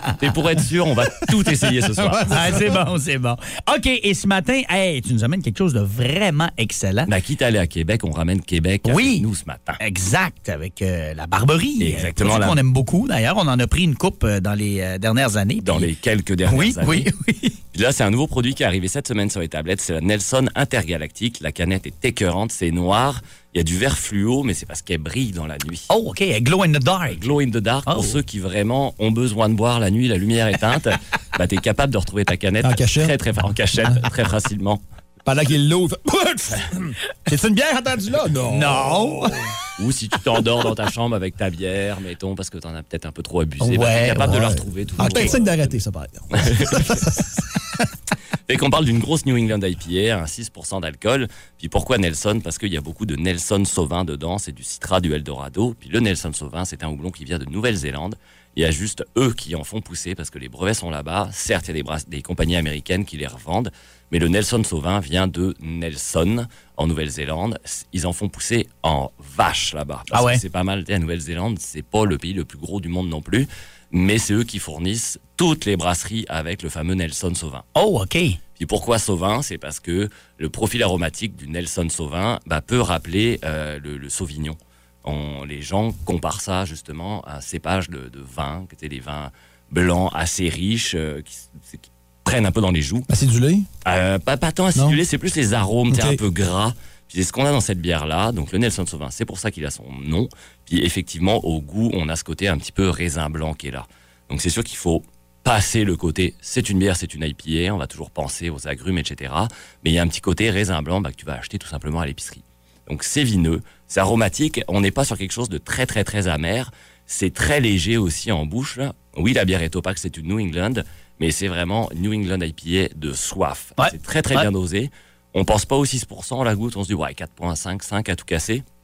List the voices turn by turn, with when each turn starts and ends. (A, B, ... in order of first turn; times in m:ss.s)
0:00.2-0:02.8 A
0:02.0-0:02.8 B
0:02.3-0:07.1 C
0:07.0-0:09.8 A
0:08.8-0:09.2 C
0:09.8-0:15.9 C
0:11.8-0:12.6 A
0:15.6-0:17.1 A
0:16.5-0:17.5 C
0:17.7-0:25.9 A
0:25.9-0:27.2 C
0:27.1-0:34.8 A
0:27.8-0:28.2 C
0:32.6-0:33.2 B
0:35.2-0:39.5 B
0:38.5-0:39.4 C
0:39.8-0:45.8 A
0:43.6-0:44.4 C
0:44.3-0:47.8 B
0:45.0-0:45.3 C
0:46.3-0:47.2 A
0:48.5-1:17.6 A
1:10.1-1:10.4 C
1:17.7-1:18.4 C
1:18.6-1:33.1 A
1:33.1-1:33.7 B
1:33.8-2:08.6 A
1:35.9-1:36.2 B
2:03.8-2:04.5 C